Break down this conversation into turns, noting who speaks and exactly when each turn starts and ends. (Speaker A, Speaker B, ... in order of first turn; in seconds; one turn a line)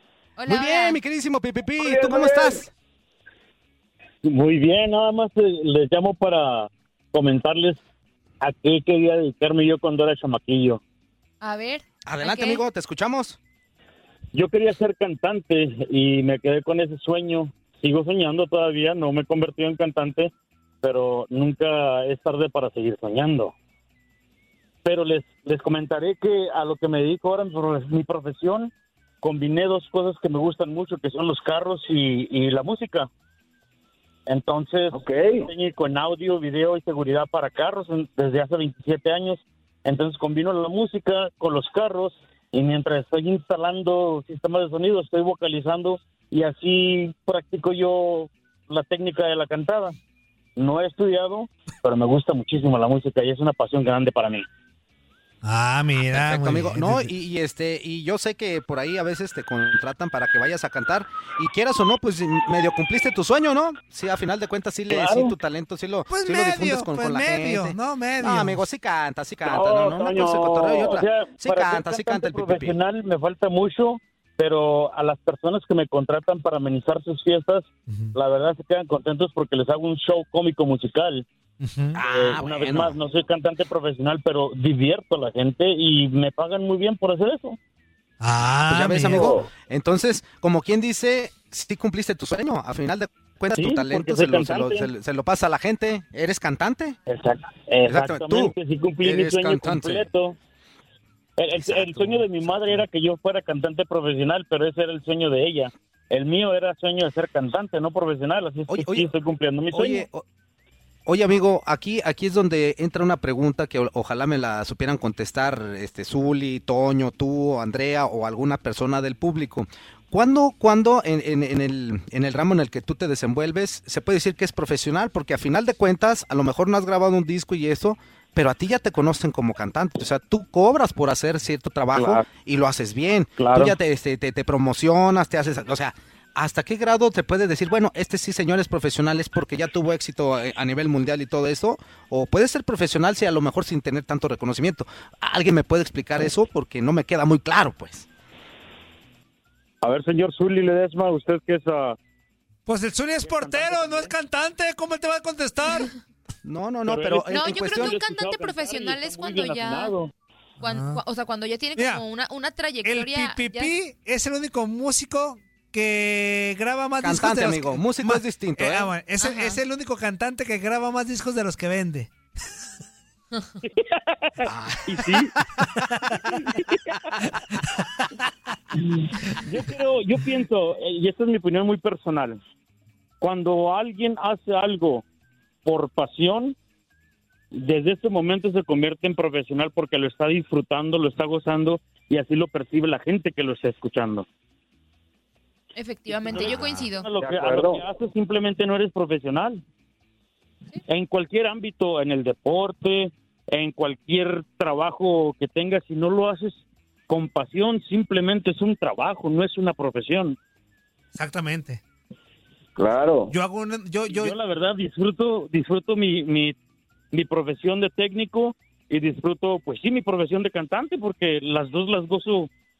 Speaker A: 0.4-1.0
Speaker B: 0.5-2.7
Speaker C: 1.9-2.5
Speaker D: 4.2-7.8
Speaker D: 8.4-10.8
Speaker A: 11.4-12.6
Speaker B: 12.1-13.4
Speaker D: 14.3-23.5
Speaker D: 24.9-33.1
Speaker D: 34.3-50.0
Speaker C: 35.0-35.3
Speaker D: 50.6-54.5
Speaker E: 55.4-57.1
Speaker B: 56.1-72.8
Speaker D: 64.9-65.3
Speaker E: 66.1-68.6
Speaker D: 69.5-81.2
Speaker E: 81.6-82.0
Speaker B: 82.0-83.0
Speaker D: 82.0-87.6
Speaker E: 88.2-89.4
Speaker B: 88.7-97.0
Speaker D: 89.1-89.4
Speaker D: 93.6-94.9
Speaker D: 97.1-100.4
Speaker B: 97.9-100.1
Speaker D: 101.4-110.1
Speaker B: 101.5-102.8
Speaker B: 108.7-109.1
Speaker B: 109.7-110.2
Speaker B: 111.1-148.1
Speaker D: 131.9-132.2
Speaker D: 133.4-133.8
Speaker D: 149.8-152.0
Speaker E: 152.7-155.9
Speaker D: 153.2-154.1
Speaker B: 156.4-157.9
Speaker D: 156.9-160.1
Speaker A: 157.3-159.9
Speaker E: 160.6-161.0
Speaker A: 160.6-163.8
Speaker E: 161.8-162.1
Speaker E: 162.8-172.1
Speaker B: 167.0-168.9
Speaker A: 169.2-169.6
Speaker D: 173.8-175.3
Speaker B: 174.5-175.0
Speaker D: 176.5-176.9
Speaker D: 179.4-182.4
Speaker D: 183.2-185.1
Speaker D: 185.7-186.6
Speaker D: 187.6-194.3
Speaker A: 195.7-197.1
Speaker D: 196.2-199.6
Speaker C: 197.2-197.7
Speaker D: 200.9-210.4
Speaker E: 211.2-211.8
Speaker C: 212.8-213.3
Speaker E: 213.3-214.4
Speaker D: 214.1-216.6
Speaker D: 217.1-222.5